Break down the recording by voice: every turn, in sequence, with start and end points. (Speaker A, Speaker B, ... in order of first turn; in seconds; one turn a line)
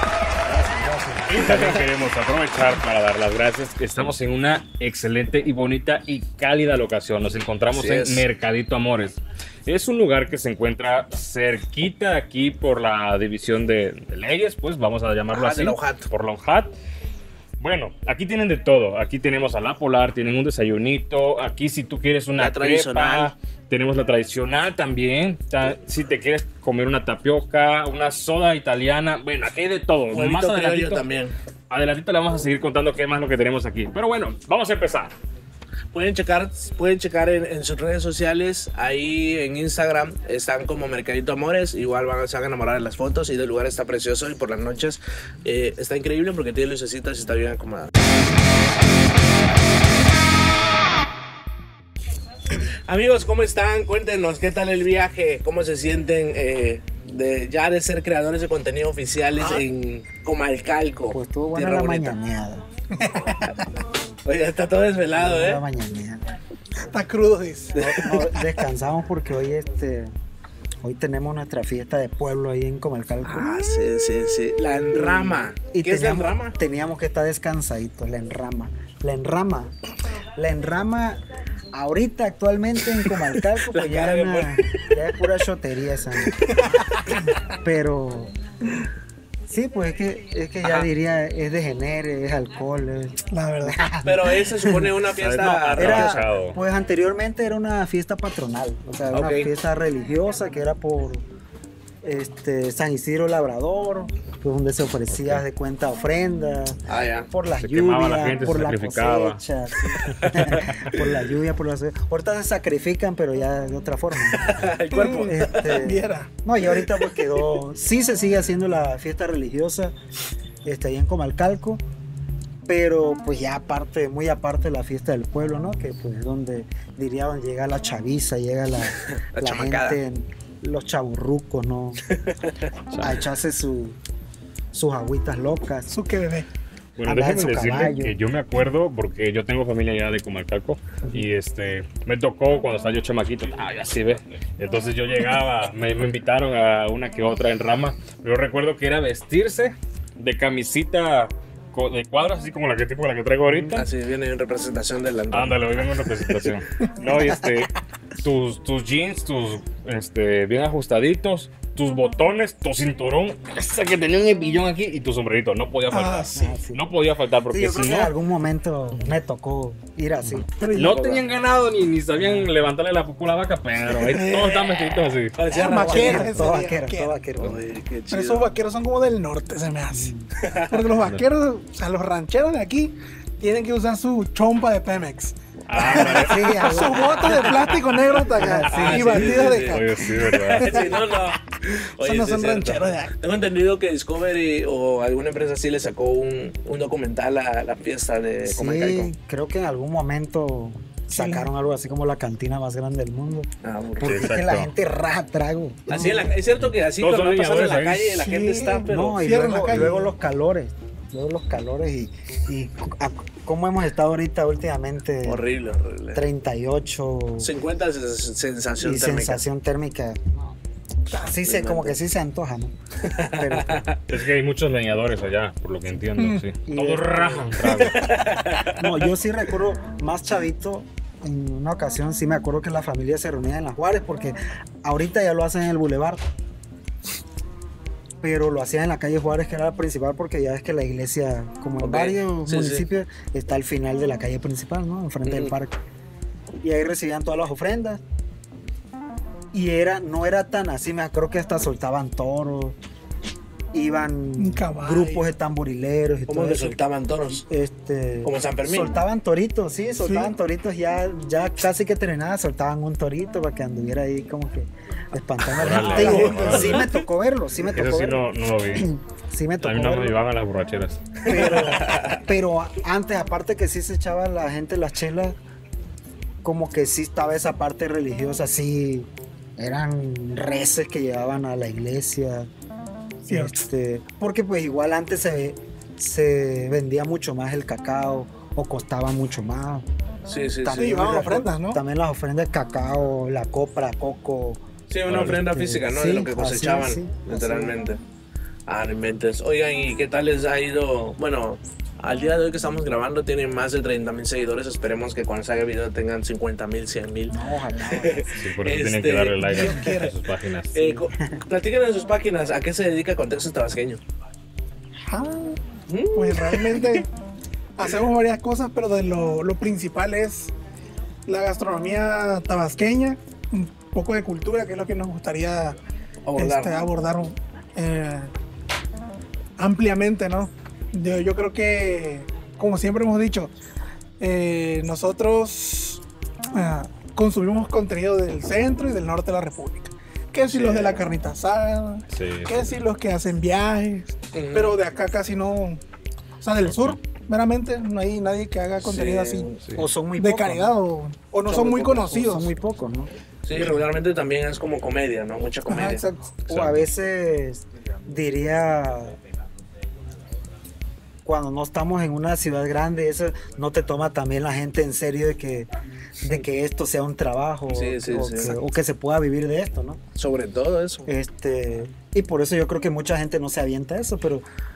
Speaker A: 1.2-1.8
Speaker B: 1.2-16.7
Speaker A: 7.7-8.2
Speaker A: 15.3-16.1
Speaker B: 17.6-31.0
Speaker A: 22.4-23.3
Speaker A: 30.1-31.4
Speaker B: 31.7-35.1
Speaker A: 35.9-47.9
Speaker A: 52.6-62.1
Speaker C: 61.1-62.7
Speaker D: 63.0-63.7
Speaker A: 64.2-65.6
Speaker C: 65.1-66.2
Speaker D: 66.8-67.8
Speaker A: 67.7-68.5
Speaker C: 67.8-70.1
Speaker C: 70.8-73.7
Speaker A: 73.2-76.6
Speaker C: 74.9-79.7
Speaker C: 80.4-81.2
Speaker C: 81.7-86.5
Speaker A: 83.6-84.9
Speaker D: 86.5-87.3
Speaker C: 87.5-88.3
Speaker C: 89.5-94.9
Speaker A: 90.6-90.9
Speaker D: 93.3-93.8
Speaker A: 94.0-96.2
Speaker B: 95.1-96.6
Speaker C: 95.8-101.2
Speaker A: 99.1-99.5
Speaker C: 102.0-114.6
Speaker B: 105.1-105.4
Speaker A: 106.9-107.3
Speaker B: 107.6-109.4
Speaker A: 110.1-111.1
Speaker A: 114.3-115.8
Speaker D: 114.9-116.3
Speaker C: 115.1-119.9
Speaker C: 120.6-121.8
Speaker C: 122.6-132.0
Speaker A: 129.0-130.0
Speaker A: 132.1-132.7
Speaker B: 132.9-133.2
Speaker C: 133.0-134.0
Speaker C: 134.7-135.9
Speaker D: 135.9-136.5
Speaker B: 137.0-153.9
Speaker C: 137.1-138.2
Speaker C: 153.4-153.8
Speaker A: 153.7-155.8
Speaker B: 155.3-168.1
Speaker C: 157.1-157.6
Speaker D: 165.9-166.6
Speaker C: 166.3-166.8
Speaker C: 167.5-171.2
Speaker D: 170.6-171.1
Speaker B: 170.6-175.4
Speaker C: 172.2-172.5
Speaker D: 173.9-174.9
Speaker A: 175.3-176.5
Speaker D: 175.5-177.1
Speaker C: 175.7-177.6
Speaker A: 177.4-178.5
Speaker D: 178.1-191.1
Speaker C: 179.9-180.3
Speaker A: 180.4-180.8
Speaker B: 185.7-187.3
Speaker C: 185.8-187.3
Speaker A: 187.2-187.8
Speaker C: 188.3-189.4
Speaker A: 188.6-199.1
Speaker B: 189.4-190.9
Speaker D: 192.0-193.1
Speaker C: 198.4-206.4
Speaker D: 201.1-201.5
Speaker A: 203.6-204.1
Speaker B: 204.0-204.7
Speaker A: 205.9-209.2
Speaker D: 205.9-206.2
Speaker B: 207.0-208.2
Speaker D: 208.2-210.1
Speaker C: 208.8-215.4
Speaker A: 215.2-216.2
Speaker C: 216.1-217.5
Speaker A: 217.4-219.4
Speaker C: 218.8-220.6
Speaker C: 221.1-223.8
Speaker A: 221.3-222.0
Speaker A: 223.0-224.0
Speaker B: 224.1-228.2
Speaker C: 226.7-227.7
Speaker D: 227.7-228.0
Speaker A: 227.9-228.9
Speaker C: 228.8-236.2
Speaker C: 238.2-245.8
Speaker A: 241.8-242.8
Speaker A: 245.2-245.5
Speaker C: 246.6-248.0
Speaker C: 249.5-252.8
Speaker C: 253.7-256.8
Speaker D: 254.4-255.3
Speaker A: 256.3-257.4
Speaker C: 257.4-270.2
Speaker A: 258.2-258.9
Speaker D: 260.0-260.3
Speaker B: 265.5-266.9
Speaker A: 265.7-266.9
Speaker D: 266.0-266.4
Speaker B: 267.7-268.9
Speaker B: 269.6-271.7
Speaker A: 271.2-272.2
Speaker C: 271.2-275.4
Speaker C: 276.4-282.5
Speaker C: 283.2-289.9
Speaker D: 283.3-283.6
Speaker A: 290.3-291.3
Speaker C: 290.6-297.8
Speaker D: 290.7-291.8
Speaker A: 294.9-298.0
Speaker B: 295.1-295.4
Speaker A: 298.7-309.7
Speaker C: 307.3-308.6
Speaker B: 308.4-310.9
Speaker D: 309.4-310.1
Speaker A: 310.7-314.0
Speaker C: 310.9-311.4
Speaker D: 315.1-315.6
Speaker A: 315.9-316.9
Speaker D: 316.1-317.1
Speaker D: 317.8-320.5
Speaker D: 321.2-325.8
Speaker A: 326.2-326.9
Speaker D: 326.4-328.3
Speaker D: 329.6-333.5
Speaker D: 334.2-336.0
Speaker D: 336.5-345.8
Speaker A: 340.5-341.1
Speaker B: 342.1-342.8
Speaker A: 344.3-344.8
Speaker D: 346.4-349.5
Speaker B: 346.6-347.0
Speaker A: 348.8-349.6
Speaker B: 349.6-349.9
Speaker C: 349.7-350.7
Speaker D: 350.2-352.5
Speaker A: 351.4-352.2
Speaker C: 352.1-353.1
Speaker A: 353.4-356.1
Speaker D: 355.7-356.4
Speaker B: 356.5-356.9
Speaker C: 356.5-359.2
Speaker C: 361.2-365.7
Speaker C: 366.2-370.0
Speaker A: 367.7-368.6
Speaker A: 370.1-371.1
Speaker C: 371.1-374.4